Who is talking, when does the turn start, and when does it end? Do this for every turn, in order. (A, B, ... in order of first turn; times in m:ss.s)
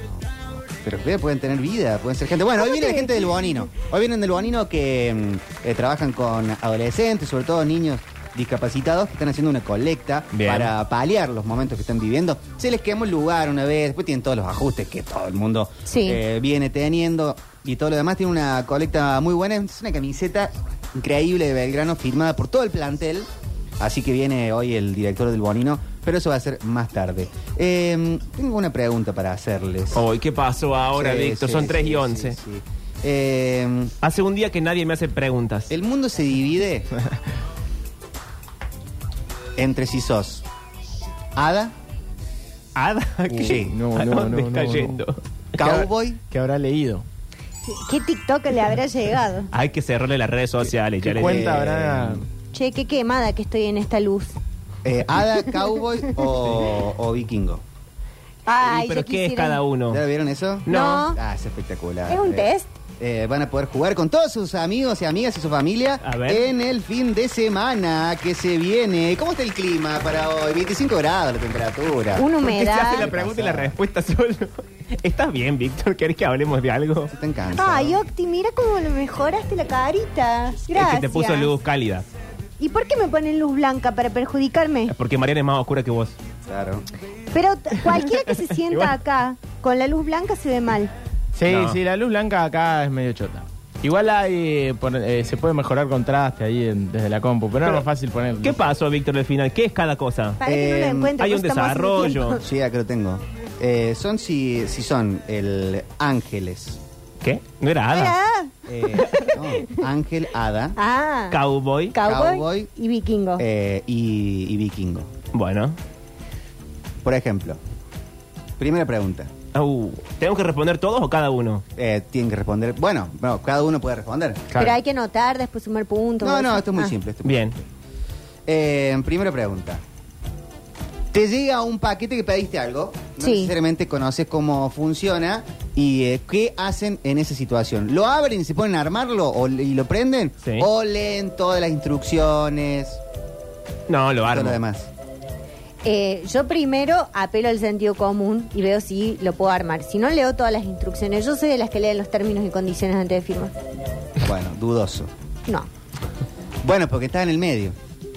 0:00.8-0:23.3 A
0:02.6-0:03.6 B
0:10.3-0:10.7 C
0:15.8-0:16.2 B
0:23.8-0:30.0 A
0:29.9-0:32.4 C
0:30.9-0:33.9 A
0:34.0-0:35.7 C
0:35.7-0:36.9 A
0:39.6-0:40.4 A
0:41.4-0:41.7 A
0:42.7-0:45.7 C
0:43.3-0:43.7 A
0:43.4-0:45.0 D
0:45.5-0:46.2 A
0:45.6-0:47.0 D
0:47.6-0:49.5 B
0:49.5-0:51.5 C
0:51.1-0:52.2 D
0:51.1-0:52.2 A
0:52.5-0:54.4 B
0:54.8-0:57.6 A
0:58.4-0:59.6 B
0:58.6-1:00.0 C
0:59.9-1:12.3 A
1:00.6-1:01.1 C
1:00.7-1:01.2 B
1:02.1-1:02.7 B
1:06.0-1:06.5 C
1:12.1-1:13.1 B
1:12.4-1:17.1 C
1:13.0-1:13.8 A
1:17.1-1:18.0 A
1:17.5-1:21.5 B
1:20.7-1:22.1 C
1:22.6-1:24.9 B
1:24.9-1:26.1 C
1:26.5-1:26.9 A
1:27.3-1:30.9 B
1:27.8-1:29.0 C
1:31.4-1:38.6 D
1:31.5-1:31.8 C
1:38.4-1:40.4 C
1:40.4-1:42.4 B
1:40.4-1:41.2 A
1:41.2-1:42.4 C
1:42.4-1:46.8 A
1:47.2-1:48.2 C
1:47.9-1:49.8 B
1:48.7-1:50.8 A
1:50.8-1:51.4 B
1:51.3-1:52.0 C
1:51.9-1:53.4 B
1:52.0-1:52.7 A
1:53.4-1:55.1 A
1:55.3-1:55.8 C
1:57.0-1:57.6 A
1:58.6-1:59.3 A
1:59.5-2:01.6 C
2:01.8-2:04.6 A
2:04.5-2:06.9 B
2:06.2-2:07.6 A
2:07.2-2:07.6 C
2:08.5-2:09.8 A
2:11.1-2:23.0 A
2:13.2-2:13.5 B
2:20.4-2:20.7 C
2:23.9-2:24.6 C
2:24.2-2:24.9 A
2:25.8-2:33.5 B
2:34.2-2:35.1 A
2:36.6-2:37.8 A